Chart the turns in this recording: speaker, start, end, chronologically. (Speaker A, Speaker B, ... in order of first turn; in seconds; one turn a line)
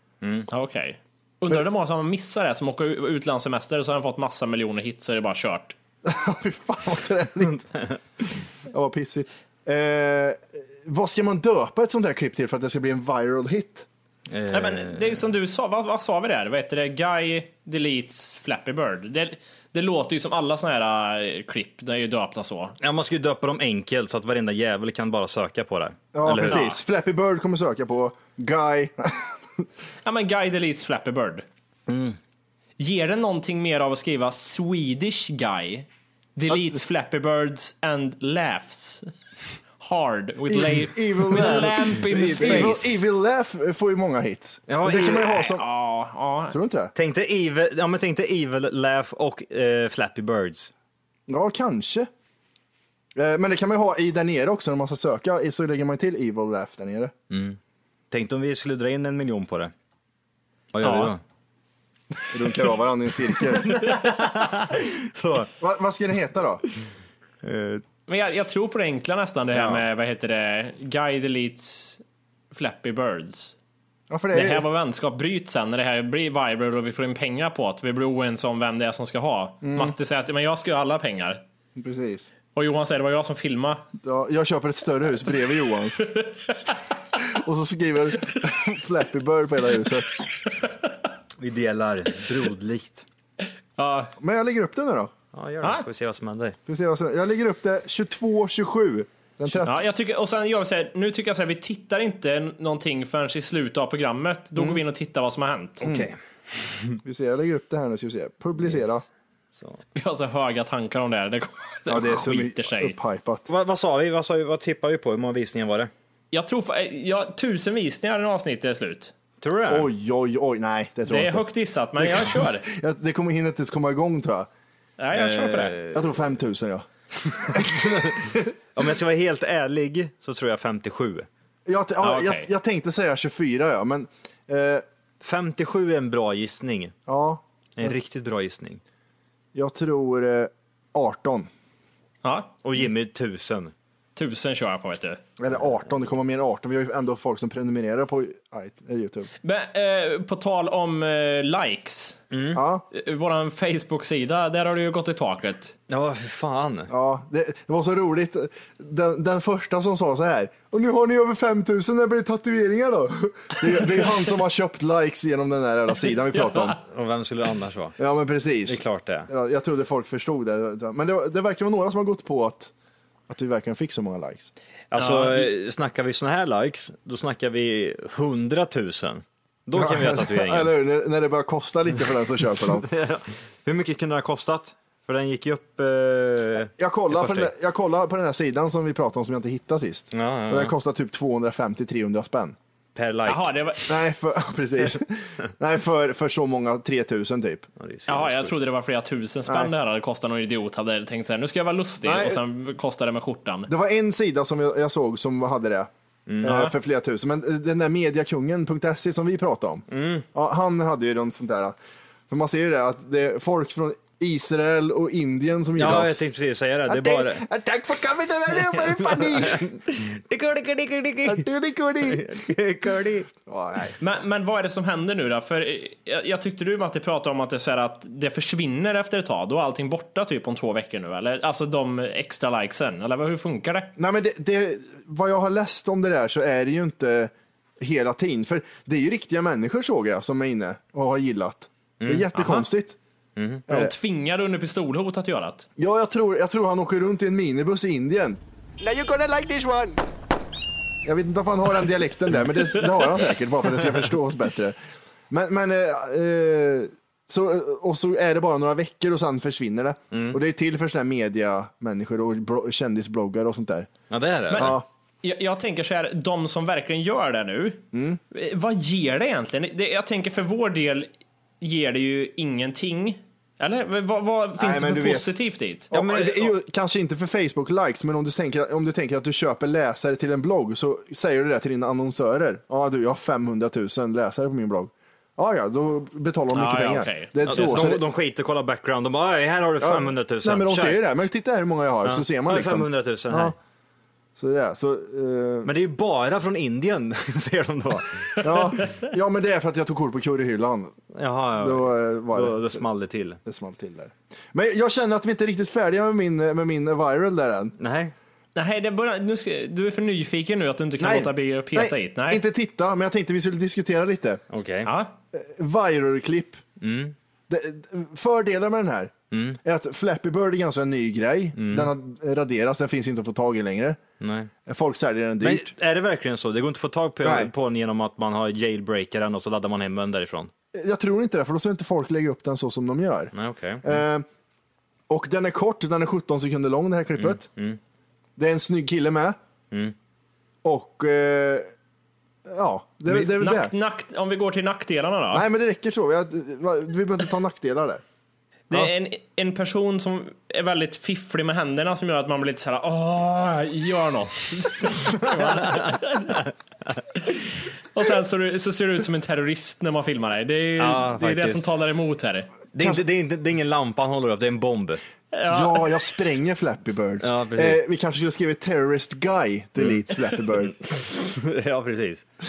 Speaker A: 0.2-0.5
Speaker B: 0.5-5.8
Speaker C: 6.0-7.6
Speaker C: 8.7-13.9
Speaker A: 14.3-15.2
Speaker B: 14.5-22.8
Speaker A: 22.8-26.7
Speaker C: 26.1-29.6
Speaker B: 26.4-26.8
Speaker B: 30.0-31.4
Speaker A: 31.9-32.2
Speaker B: 32.8-39.1
Speaker B: 39.8-43.0
Speaker C: 40.5-45.6
Speaker A: 41.3-42.9
Speaker A: 44.7-45.4
Speaker B: 45.1-46.5
Speaker C: 46.5-46.9
Speaker A: 46.9-50.7
Speaker C: 51.3-52.1
Speaker C: 53.1-57.1
Speaker A: 57.3-57.6
Speaker A: 58.1-59.7
Speaker A: 60.7-61.2
Speaker B: 60.8-61.1
Speaker C: 62.3-63.8
Speaker A: 63.5-65.5
Speaker C: 65.6-66.6
Speaker A: 67.4-67.8
Speaker B: 68.1-73.5
Speaker A: 69.5-69.8
Speaker C: 74.1-74.6
Speaker B: 74.3-81.4
Speaker C: 79.6-79.9
Speaker C: 81.8-82.3
Speaker B: 82.5-83.8
Speaker C: 84.0-86.1
Speaker B: 86.2-86.5
Speaker C: 87.2-90.1
Speaker A: 91.4-93.0
Speaker B: 93.8-94.1
Speaker C: 94.2-95.1
Speaker A: 95.3-96.6
Speaker C: 96.7-99.8
Speaker B: 99.6-105.8
Speaker C: 105.8-106.1
Speaker A: 105.8-107.0
Speaker C: 107.0-109.0
Speaker B: 109.9-112.9
Speaker C: 111.9-113.5
Speaker A: 113.5-115.9
Speaker B: 116.3-119.1
Speaker A: 119.4-119.9
Speaker C: 119.7-121.4
Speaker B: 121.1-122.7
Speaker C: 122.0-124.5
Speaker B: 125.0-125.8
Speaker A: 125.1-126.0
Speaker C: 125.9-126.9
Speaker A: 127.3-131.3
Speaker C: 127.5-128.5
Speaker C: 131.7-134.8
Speaker B: 132.0-132.5
Speaker A: 135.2-136.9
Speaker C: 137.1-137.9
Speaker A: 137.8-138.8
Speaker C: 139.5-141.5
Speaker B: 142.2-142.5
Speaker A: 142.6-143.7
Speaker B: 144.2-145.2
Speaker C: 145.4-149.3
Speaker B: 149.4-152.2
Speaker A: 152.3-152.6
Speaker C: 152.5-152.8
Speaker B: 152.9-155.8
Speaker A: 155.9-156.9
Speaker C: 156.9-166.8
Speaker A: 166.7-168.0
Speaker C: 168.0-172.7
Speaker A: 168.7-169.3
Speaker C: 173.3-174.5
Speaker A: 174.9-180.7
Speaker B: 175.0-175.5
Speaker C: 179.7-182.9
Speaker A: 182.8-187.5
Speaker C: 186.8-192.6
Speaker A: 190.1-190.7
Speaker A: 192.9-193.6
Speaker B: 193.2-193.9
Speaker C: 193.9-197.7
Speaker A: 197.8-198.6
Speaker B: 198.1-203.7
Speaker C: 199.5-199.7
Speaker C: 202.0-202.4
Speaker C: 203.7-205.9
Speaker A: 206.3-206.7
Speaker C: 206.4-211.8
Speaker A: 209.9-210.2
Speaker C: 212.3-216.2
Speaker A: 215.8-217.4
Speaker C: 216.8-219.7
Speaker A: 218.7-221.4
Speaker C: 221.2-222.4
Speaker A: 222.0-223.3
Speaker C: 223.4-223.9
Speaker B: 224.0-233.9
Speaker C: 234.0-243.0
Speaker A: 242.0-242.3
Speaker B: 242.3-242.6
Speaker A: 243.3-243.7
Speaker C: 243.7-243.9
Speaker B: 243.7-245.7
Speaker C: 245.8-250.0
Speaker C: 251.0-254.8
Speaker C: 255.3-263.9
Speaker A: 260.1-260.4
Speaker A: 264.1-264.8
Speaker B: 264.5-271.1
Speaker C: 264.5-264.9
Speaker C: 267.9-268.2
Speaker B: 271.6-275.9
Speaker C: 274.6-275.3
Speaker C: 275.9-288.0
Speaker A: 275.9-276.5
Speaker B: 286.5-287.9
Speaker A: 287.4-291.0
Speaker C: 289.8-293.6
Speaker A: 292.0-293.6
Speaker C: 294.4-295.7
Speaker A: 295.6-298.7
Speaker C: 298.4-301.0
Speaker A: 301.1-303.4
Speaker C: 301.6-302.8
Speaker C: 303.4-307.7
Speaker A: 307.8-308.1
Speaker B: 308.5-312.4
Speaker C: 311.0-314.4
Speaker A: 314.5-314.9
Speaker B: 314.8-315.1
Speaker C: 315.3-316.6
Speaker A: 316.8-317.1
Speaker C: 317.5-319.1
Speaker A: 319.3-319.6
Speaker C: 319.6-324.0
Speaker A: 321.6-321.9
Speaker A: 324.2-324.5
Speaker C: 324.6-325.7
Speaker A: 325.4-330.5
Speaker C: 327.2-327.5
Speaker C: 330.7-334.3
Speaker A: 333.3-334.0
Speaker C: 335.1-337.4
Speaker A: 337.2-337.8
Speaker C: 338.4-339.4
Speaker C: 340.6-341.7
Speaker C: 342.4-343.7
Speaker B: 343.1-345.5
Speaker C: 345.3-348.0
Speaker B: 348.7-356.4
Speaker A: 355.2-357.0
Speaker B: 357.9-362.5
Speaker A: 360.8-361.7
Speaker A: 362.7-365.0
Speaker B: 365.3-365.9
Speaker C: 365.5-370.8
Speaker A: 367.2-367.8
Speaker A: 370.9-372.2